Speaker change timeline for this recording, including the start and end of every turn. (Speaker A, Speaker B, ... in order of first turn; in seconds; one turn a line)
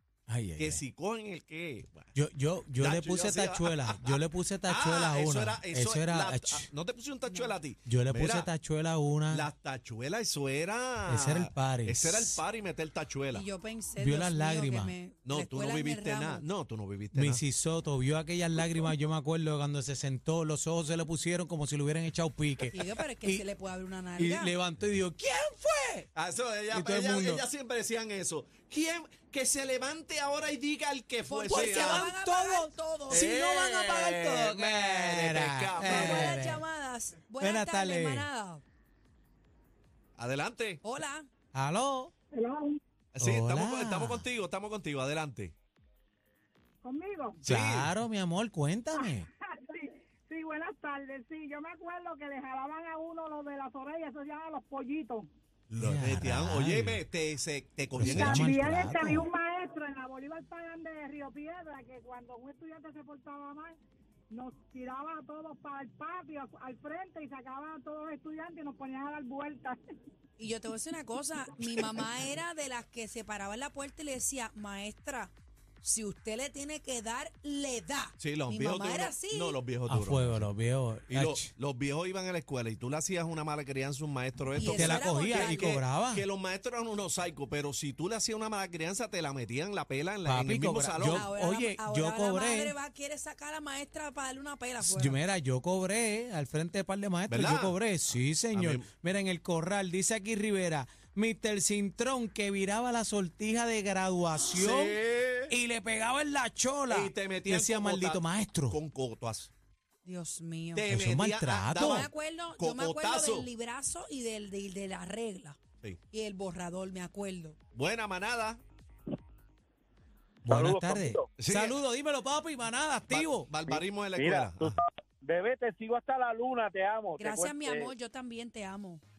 Speaker A: 0.3-0.8
Speaker B: 0.6-2.1
Speaker A: 2.1-6.7
Speaker B: 2.8-8.5
Speaker A: 7.9-9.4
Speaker B: 9.3-13.4
Speaker A: 11.1-12.4
Speaker C: 13.3-16.5
Speaker A: 14.0-14.9
Speaker B: 15.2-17.4
Speaker A: 17.1-23.4
Speaker C: 22.7-24.6
Speaker A: 24.2-26.1
Speaker B: 26.1-32.1
Speaker A: 26.7-27.4
Speaker C: 31.3-33.3
Speaker A: 31.5-36.6
Speaker B: 33.1-36.4
Speaker C: 35.8-38.6
Speaker A: 37.4-38.3
Speaker B: 40.2-40.8
Speaker C: 40.8-41.3
Speaker A: 41.5-42.1
Speaker D: 42.3-42.8
Speaker B: 43.2-45.5
Speaker A: 43.2-44.2
Speaker D: 46.8-47.4
Speaker B: 47.4-47.9
Speaker A: 47.5-49.3
Speaker D: 48.9-55.3
Speaker B: 55.7-58.7
Speaker A: 55.8-57.0
Speaker A: 58.0-59.3
Speaker D: 58.0-63.8
Speaker D: 64.3-69.8
Speaker C: 70.4-79.6
Speaker B: 78.2-80.5
Speaker A: 79.9-81.5
Speaker B: 81.1-91.3
Speaker C: 84.6-85.8
Speaker A: 84.7-86.2
Speaker A: 90.3-92.7
Speaker C: 91.1-95.2
Speaker A: 94.8-105.0
Speaker B: 97.3-97.8
Speaker B: 98.5-98.9
Speaker B: 104.5-105.5
Speaker A: 105.5-108.8
Speaker B: 106.9-109.5
Speaker C: 110.0-110.9
Speaker B: 110.8-113.5
Speaker A: 110.9-112.1
Speaker C: 111.8-115.6
Speaker C: 116.1-117.6
Speaker B: 117.7-118.6
Speaker A: 120.5-123.5
Speaker E: 120.5-121.3
Speaker B: 121.4-121.8
Speaker B: 123.1-124.8
Speaker E: 123.7-127.9
Speaker C: 127.2-129.0